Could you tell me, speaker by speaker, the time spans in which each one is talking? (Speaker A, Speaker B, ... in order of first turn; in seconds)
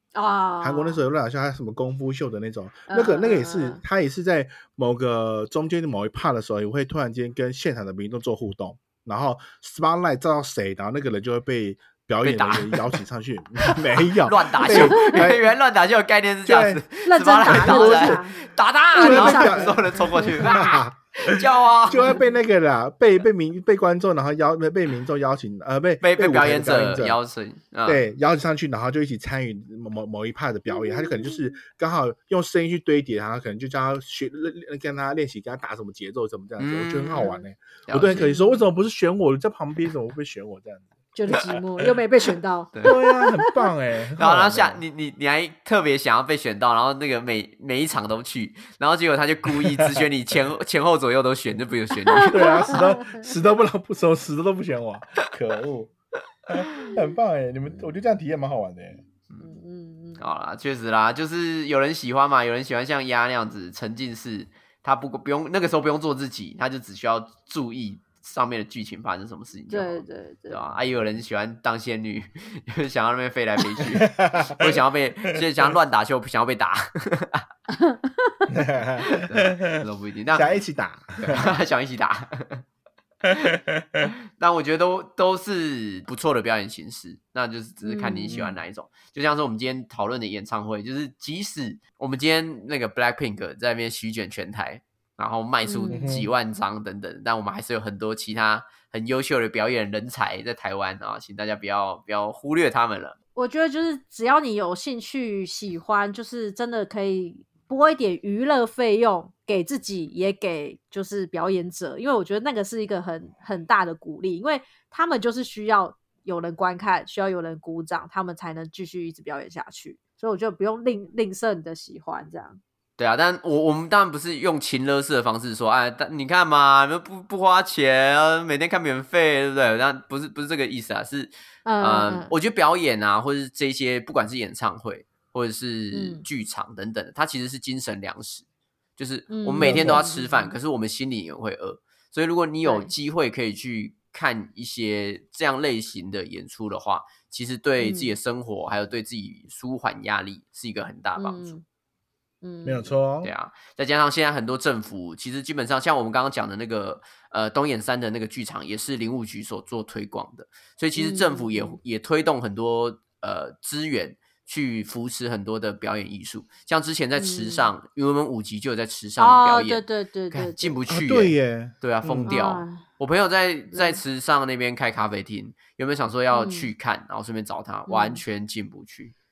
Speaker A: 0.1-1.0, 2.9-3.8, 14.6-15.3, 17.0-18.4, 18.9-20.7, 21.9-22.2, 30.8-31.3, 37.2-37.4, 38.3-38.6, 41.1-43.6, 52.2-53.1, 59.4-60.2, 69.7-70.6, 77.7-78.5, 87.8-88.4, 95.6-96.2, 103.3-122.6, 131.7-132.3, 135.9-136.2, 139.3-140.5, 142.6-142.9, 147.8-148.1, 151.2-151.6, 152.4-152.9, 160.9-161.8, 167.2-167.7, 169.2-170.8, 172.3-172.8, 173.7-174.0, 176.3-176.7, 177.9-178.2
Speaker B: 0.6-15.5, 16.4-18.2, 18.9-27.2, 27.8-40.9, 42.8-44.8, 49.5-50.0, 52.2-55.9, 56.5-59.0, 73.9-74.8, 78.5-81.4, 83.3-84.1, 88.3-88.5, 95.9-96.3, 139.6-140.0, 152.6-153.3, 170.9-172.4
Speaker C: 12.2-13.0, 13.6-22.2, 26.0-28.0, 36.6-37.4, 37.9-38.4, 42.7-43.0, 44.2-52.8, 60.2-77.5, 79.1-80.5, 81.2-82.6, 84.1-103.2, 123.0-138.4, 139.0-151.5, 153.2-169.8, 170.3-179.1